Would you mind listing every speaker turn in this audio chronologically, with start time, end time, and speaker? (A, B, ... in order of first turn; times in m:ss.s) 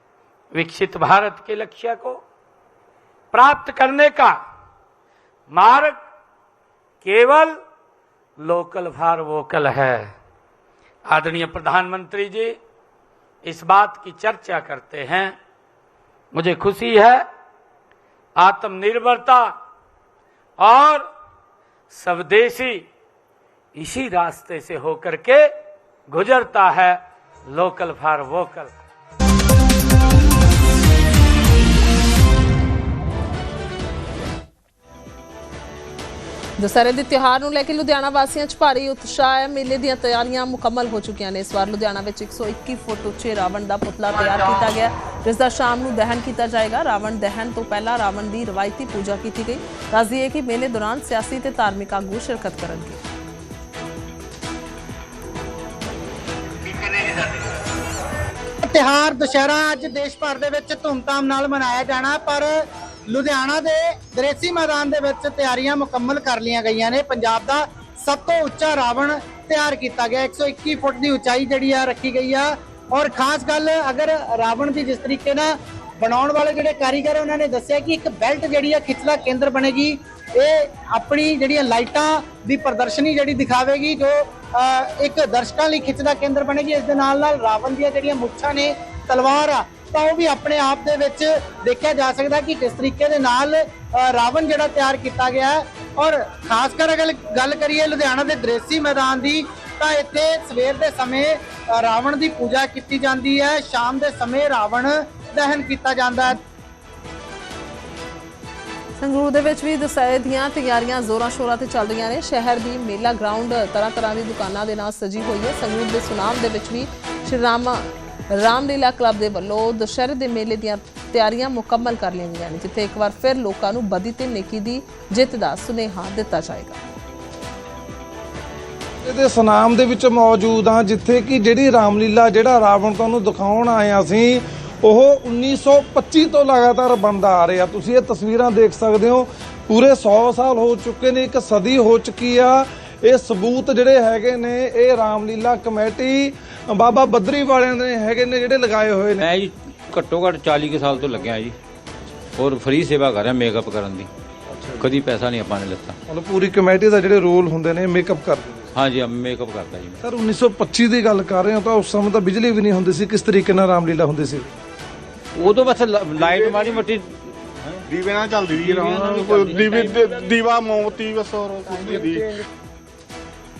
0:00.5-0:02.2 A
0:03.3-0:04.4 A
0:05.5-0:06.0 A
0:07.0-0:07.5 A
0:08.4-0:10.1 A
0:11.1-0:12.5 A
0:13.4-0:15.3 A
0:16.3-0:17.2 A
0:18.4-0:19.5 A
0:20.6-0:21.1 A
0:21.9-0:22.8 A
0:23.8-0:25.5 A
0:26.1-0:28.7 A
0:36.6-0:53.0 B
0:56.9-0:57.3 C
0:58.6-1:02.6 C
1:03.1-1:46.4 C
1:49.0-2:06.8 B
2:09.0-2:29.2 D
2:29.2-2:31.6 E
2:32.3-2:34.1 E
2:34.8-2:36.0 E
2:36.1-2:38.7 D
2:38.7-2:40.0 E
2:40.0-2:44.5 D
2:45.4-2:47.1 E
2:46.1-2:46.7 F
2:47.9-2:52.4 F
2:48.6-2:50.0 E